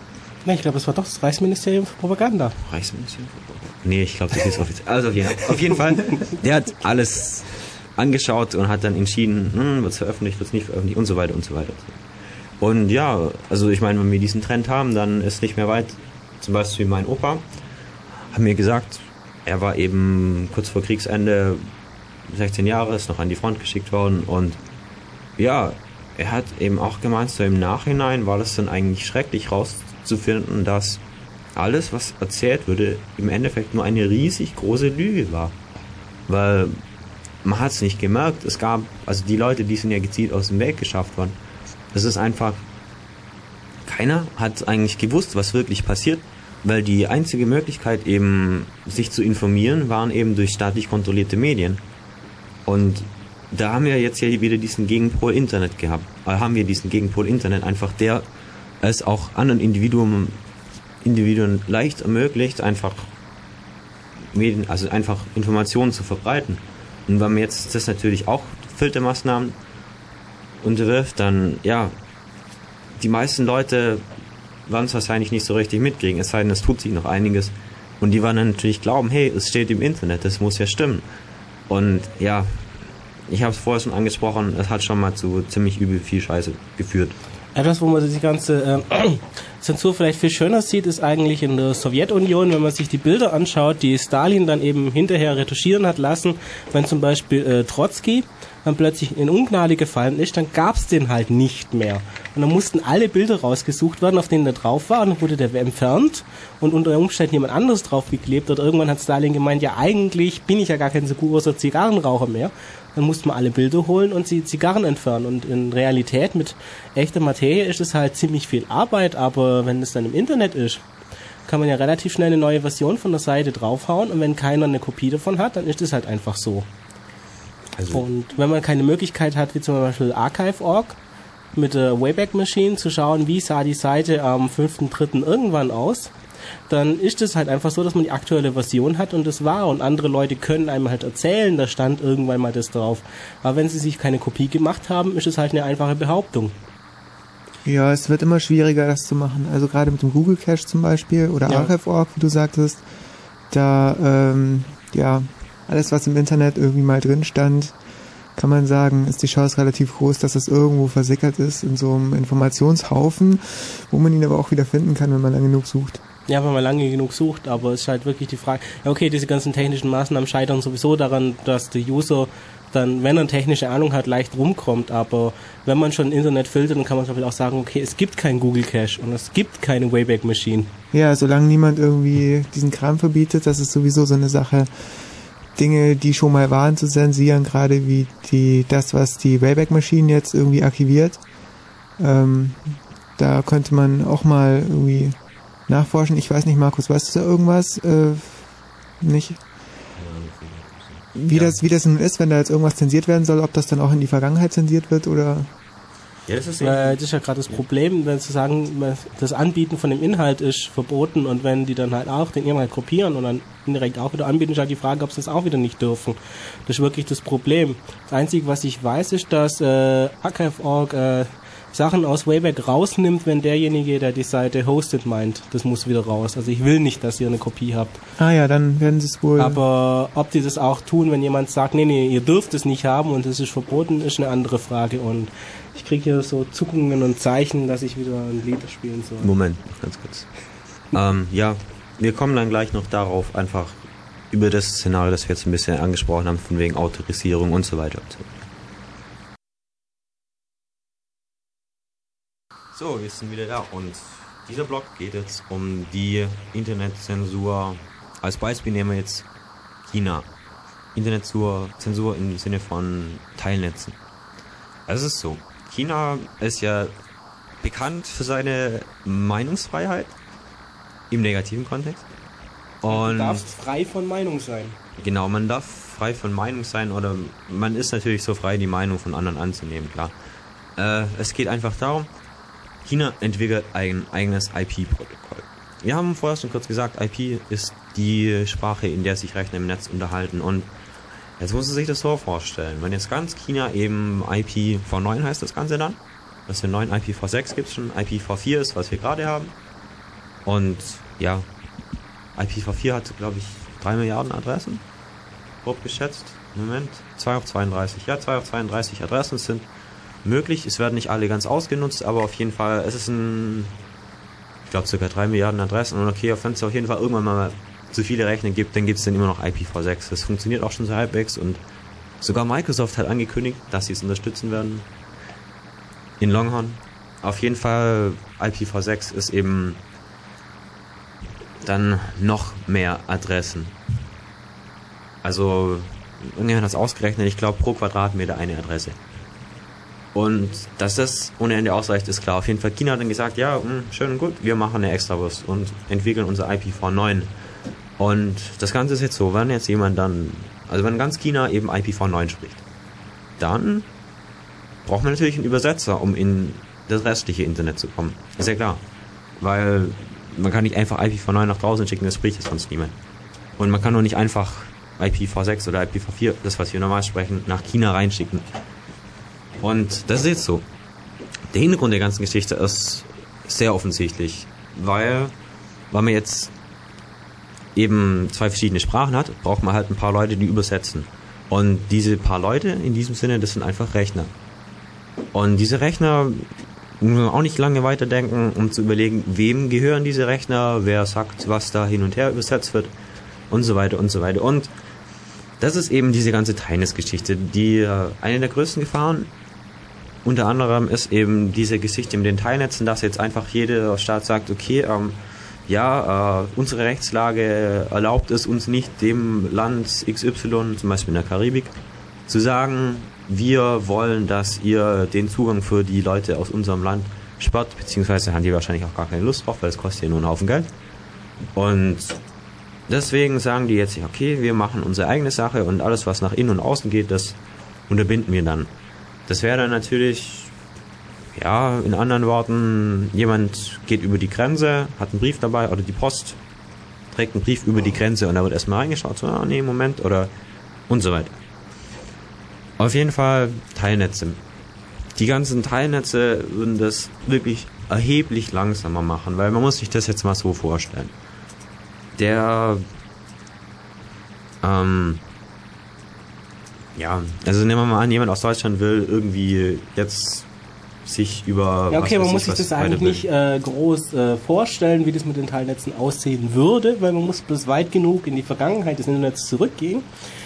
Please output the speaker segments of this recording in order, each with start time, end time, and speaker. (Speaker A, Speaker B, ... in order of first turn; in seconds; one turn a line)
Speaker A: 0.4-2.6
Speaker B: 2.6-12.0
Speaker B: 12.6-17.4
Speaker B: 18.3-21.6
Speaker B: 22.3-24.6
Speaker B: 25.4-31.0
Speaker B: 31.6-35.5
Speaker B: 36.3-36.8
Speaker B: 37.4-41.3
Speaker B: 41.9-42.6
Speaker B: 43.9-51.8
Speaker B: 52.6-58.2
Speaker B: 58.8-60.4
Speaker B: 61.0-63.1
Speaker B: 64.3-69.5
Speaker B: 70.6-71.9
Speaker B: 73.0-74.0
Speaker B: 74.7-81.0
Speaker B: 81.7-82.6
Speaker B: 83.3-87.2
Speaker A: 87.5-120.8
Speaker A: 121.5-126.7
Speaker B: 127.8-128.0
Speaker A: 127.9-131.0
Speaker A: 131.6-136.1
Speaker A: 136.7-146.5
Speaker C: 147.6-152.8
Speaker C: 153.5-157.7
Speaker C: 158.3-166.0
Speaker A: 166.3-180.7
Speaker C: 180.9-184.7
Speaker C: 185.6-191.2
Speaker C: 192.0-195.2
Speaker C: 195.7-198.4
Speaker C: 199.0-199.4
Speaker B: 200.0-201.6
Speaker C: 201.2-205.5
Speaker B: 206.3-207.0
Speaker A: 206.6-228.0
Speaker C: 228.2-229.6
Speaker A: 229.4-239.3
Speaker B: 239.2-240.3
Speaker B: 240.9-243.8
Speaker B: 244.3-248.3
Speaker B: 252.7-259.2
Speaker B: 259.9-260.3
Speaker B: 260.9-264.0
Speaker B: 264.9-266.9
Speaker B: 267.6-270.1
Speaker B: 271.1-272.0
Speaker B: 272.8-273.4
Speaker A: 272.9-274.8
Speaker B: 275.0-280.1
Speaker B: 280.8-282.1
Speaker B: 282.8-290.7
Speaker B: 291.4-299.5
Speaker B: 300.4-301.4
Speaker B: 302.4-304.8
Speaker B: 305.6-309.6
Speaker B: 310.2-313.7
Speaker B: 314.7-321.6
Speaker B: 322.2-324.9
Speaker B: 326.2-329.8
Speaker B: 331.6-333.7
Speaker B: 335.2-339.0
Speaker B: 340.1-347.3
Speaker B: 348.0-352.6
Speaker B: 353.4-353.9
Speaker B: 354.8-358.8
Speaker B: 359.4-362.9
Speaker B: 363.6-368.5
Speaker B: 369.6-370.6
Speaker B: 371.5-375.3
Speaker B: 375.9-376.5
Speaker B: 377.7-384.3
Speaker B: 385.3-386.5
Speaker B: 387.0-392.9
Speaker B: 393.5-394.7
Speaker B: 395.6-399.3
Speaker B: 400.2-411.7
Speaker B: 412.3-420.7
Speaker B: 421.6-422.2
Speaker B: 422.9-427.4
Speaker B: 427.9-428.7
Speaker B: 429.3-430.5
Speaker B: 431.3-436.4
Speaker B: 437.1-440.3
Speaker B: 440.9-441.3
Speaker B: 442.8-444.4
Speaker B: 445.1-451.1
Speaker B: 452.2-452.8
Speaker B: 454.6-455.2
Speaker B: 456.9-460.5
Speaker B: 461.0-463.2
Speaker A: 461.9-470.1